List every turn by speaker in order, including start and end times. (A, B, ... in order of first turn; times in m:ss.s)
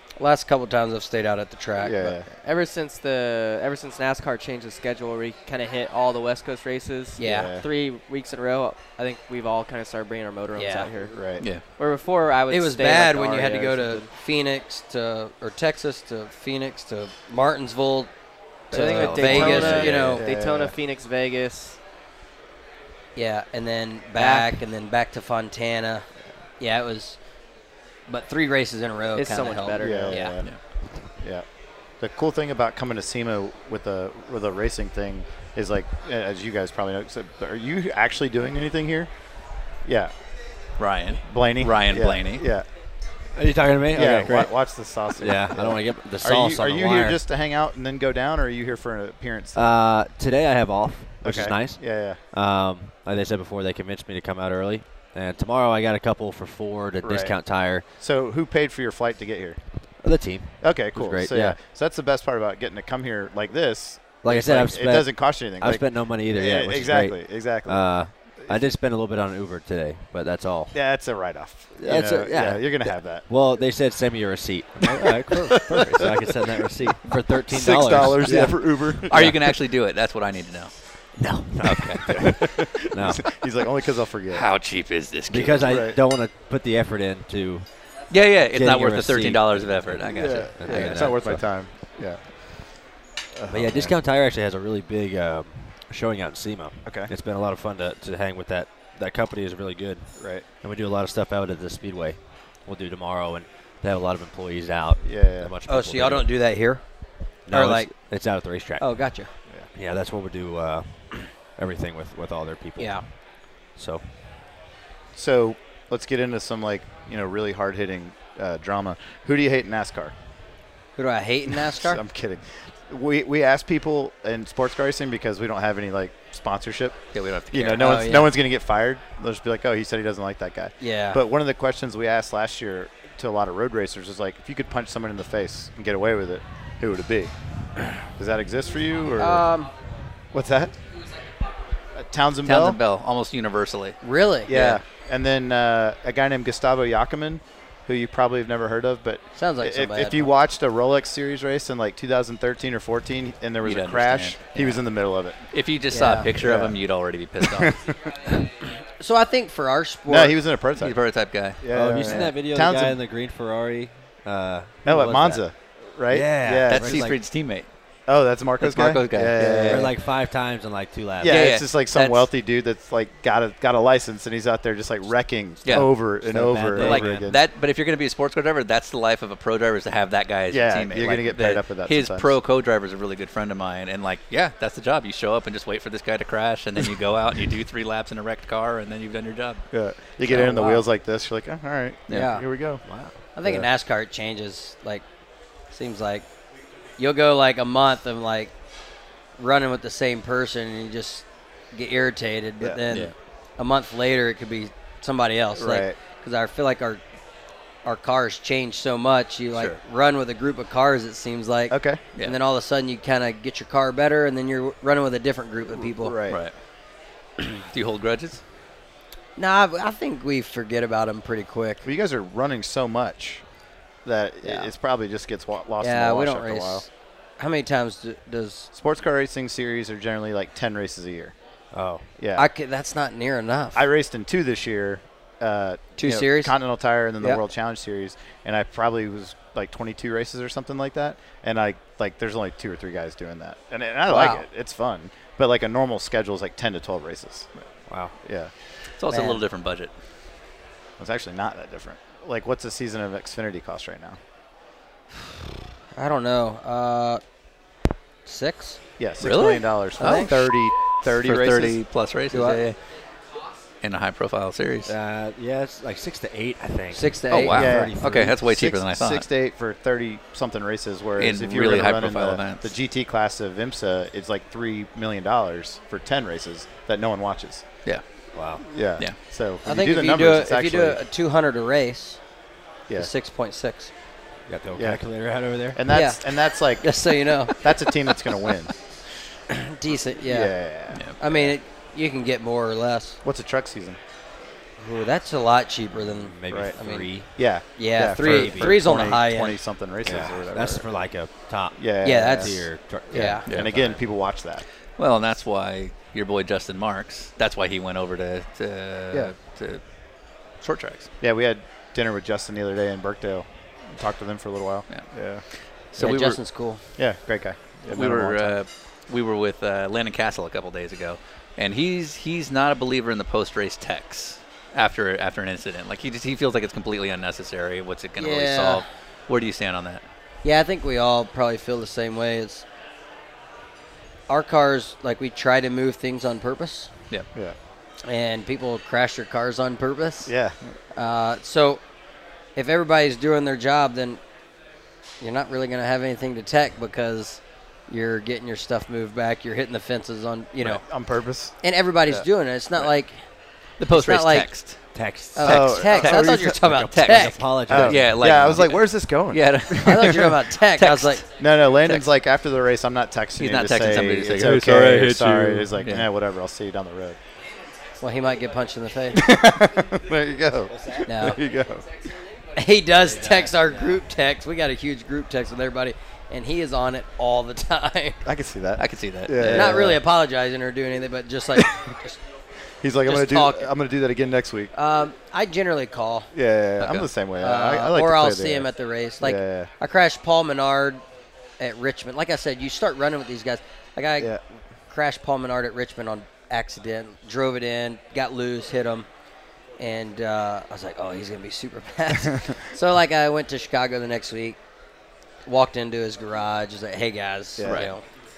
0:00.2-0:02.2 A
0:01.8-0:02.3 B
0:02.3-0:11.1 C
0:07.2-0:07.5 A
0:07.2-0:07.7 B
0:10.6-0:10.9 A
0:11.1-0:11.4 B
0:11.4-0:11.6 D
0:11.7-0:14.1 C
0:12.5-0:18.1 A
0:18.7-0:20.2 A
0:18.7-0:21.8 C
0:18.7-0:20.8 B
0:19.2-0:19.6 D
0:19.4-0:19.9 E
0:23.1-0:26.1 A
0:24.2-0:24.6 C
0:26.6-0:27.2 A
0:28.1-0:30.4 A
0:29.1-0:30.3 C
0:29.8-0:30.6 B
0:31.1-0:31.4 B
0:32.0-0:39.1 B
0:39.8-0:40.1 B
0:40.8-0:42.5 D
0:41.2-0:42.7 B
0:43.3-0:44.5 E
0:43.9-0:49.8 B
0:45.2-0:47.2 E
0:49.6-0:57.8 E
0:51.2-0:52.2 B
0:57.0-0:59.6 B
1:00.0-1:01.6 E
1:00.6-1:08.6 B
1:04.2-1:10.8 E
1:10.7-1:13.3 B
1:11.8-1:19.4 E
1:15.5-1:16.1 B
1:17.5-1:19.3 B
1:19.1-1:20.7 D
1:21.2-1:23.3 E
1:21.6-1:22.3 D
1:22.1-1:24.4 B
1:24.3-1:25.7 D
1:25.3-1:27.7 E
1:25.6-1:26.0 B
1:28.1-1:31.1 D
1:28.4-1:31.5 E
1:30.1-1:32.6 B
1:33.3-1:34.0 B
1:33.5-1:46.3 E
1:36.8-1:37.1 B
1:40.2-1:40.5 B
1:45.0-1:45.5 B
1:45.7-1:46.8 A
1:47.5-1:49.2 E
1:47.5-1:47.9 A
1:48.8-1:49.3 A
1:49.7-1:53.2 E
1:52.8-1:53.1 A
1:53.7-1:54.2 E
1:55.1-2:00.1 B
2:01.0-2:02.0 A
2:01.7-2:07.0 B
2:07.1-2:07.9 D
2:07.5-2:17.3 B
2:07.8-2:08.3 A
2:10.8-2:11.2 A
2:18.2-2:19.5 B
2:19.1-2:19.7 A
2:20.3-2:20.7 B
2:22.0-2:22.8 B
2:22.4-2:24.0 D
2:24.0-2:24.8 A
2:24.5-2:35.4 B
2:29.4-2:30.3 A
2:33.6-2:34.8 D
2:35.5-2:38.0 D
2:35.9-2:36.3 A
2:36.4-2:36.8 B
2:37.4-2:37.8 B
2:38.4-2:40.4 A
2:40.1-2:41.0 B
2:40.8-2:42.3 D
2:41.6-2:43.0 B
2:41.7-2:45.4 E
2:44.8-2:47.1 B
2:46.1-2:47.2 E
2:46.7-2:47.7 D
2:48.1-2:49.9 B
2:48.6-2:49.9 D
2:49.4-2:51.5 E
2:51.2-2:57.4 B
2:51.2-2:52.3 D
2:55.6-2:55.9 D
2:55.8-2:57.3 E
2:56.8-3:09.6 D
3:00.5-3:02.3 B
3:09.7-3:12.8 B
3:10.2-3:10.8 A
3:12.1-3:12.5 A
3:12.8-3:13.2 E
3:13.4-3:15.0 A
3:15.7-3:16.2 A
3:17.0-3:18.5 A
3:19.4-3:27.0 A
3:25.6-3:26.0 B
3:27.8-3:36.2 A
3:29.5-3:29.8 D
3:31.7-3:32.0 B
3:35.7-3:36.4 B
3:36.3-3:36.5 D
3:37.4-3:38.4 D
3:39.4-3:41.8 A
3:41.8-3:43.4 B
3:44.0-3:46.9 B
3:44.4-3:44.7 A
3:45.8-3:46.9 A
3:47.4-3:48.7 A
3:48.7-3:51.3 B
3:51.7-3:52.0 E
3:52.2-3:52.5 B
3:52.3-3:53.9 A
3:53.8-4:07.5 B
3:56.0-3:56.6 A
4:04.1-4:04.5 A
4:07.9-4:08.1 E
4:08.2-4:08.5 B
4:09.0-4:09.9 D
4:09.1-4:09.4 A
4:11.0-4:14.2 B
4:15.9-4:17.2 A
4:18.3-4:18.8 A
4:19.0-4:21.8 B
4:19.2-4:20.5 D
4:20.0-4:20.3 A
4:21.1-4:22.8 D
4:22.3-4:22.6 A
4:23.8-4:24.9 D
4:24.9-4:28.4 E
4:26.9-4:27.7 A
4:27.3-4:29.3 D
4:27.3-4:37.6 B
4:31.2-4:32.7 D
4:38.3-4:38.6 E
4:38.6-4:41.0 B
4:39.6-4:42.2 A
4:43.0-4:43.9 A
4:44.5-4:45.8 E
4:44.8-4:45.0 B
4:45.7-4:46.9 B
4:45.9-4:46.2 A
4:46.8-4:47.8 A
4:47.6-4:48.7 B
4:49.5-4:50.5 A
4:50.2-4:51.6 B
4:51.2-4:53.2 A
4:53.2-4:54.0 B
4:54.8-4:57.1 A
4:56.0-4:57.3 E
4:56.5-4:56.8 B
4:57.3-5:00.9 B
4:57.8-4:59.6 A
4:58.2-4:58.8 E
5:00.0-5:04.0 E
5:01.8-5:04.6 B
5:02.0-5:03.4 A
5:05.0-5:09.8 D
5:10.6-5:11.1 D
5:11.2-5:15.4 B
5:15.9-5:16.4 D
5:16.0-5:16.8 A
5:17.0-5:18.6 B
5:17.9-5:30.0 D
5:28.2-5:28.9 A
5:30.4-5:32.6 A
5:34.3-5:36.9 A
5:38.0-5:40.3 A
5:40.3-5:40.7 B
5:40.9-5:41.8 A
5:42.6-5:44.2 A
5:45.2-5:50.8 A
5:50.7-5:52.3 B
5:51.6-5:53.2 A
5:53.8-5:54.8 D
5:53.9-5:54.5 A
5:54.9-5:58.6 E
5:55.3-5:57.5 A
5:55.4-5:56.5 B
5:55.4-6:01.2 D
5:57.7-6:00.2 B
5:59.8-6:01.2 A
6:01.4-6:07.2 B
6:03.4-6:06.1 D
6:08.0-6:09.2 A
6:09.1-6:11.8 B
6:11.0-6:11.4 A
6:12.6-6:18.2 A
6:13.1-6:13.9 E
6:18.2-6:20.0 B
6:18.8-6:19.8 D
6:19.4-6:22.2 A
6:22.8-6:24.7 B
6:23.0-6:23.7 A
6:24.7-6:26.3 A
6:26.3-6:28.7 B
6:26.8-6:27.1 D
6:27.4-6:31.0 A
6:29.2-6:29.7 B
6:31.6-6:34.4 A
6:34.9-6:39.1 A
6:39.8-6:44.6 A
6:45.5-6:48.0 A
6:47.6-6:47.9 B
6:47.6-6:47.9 D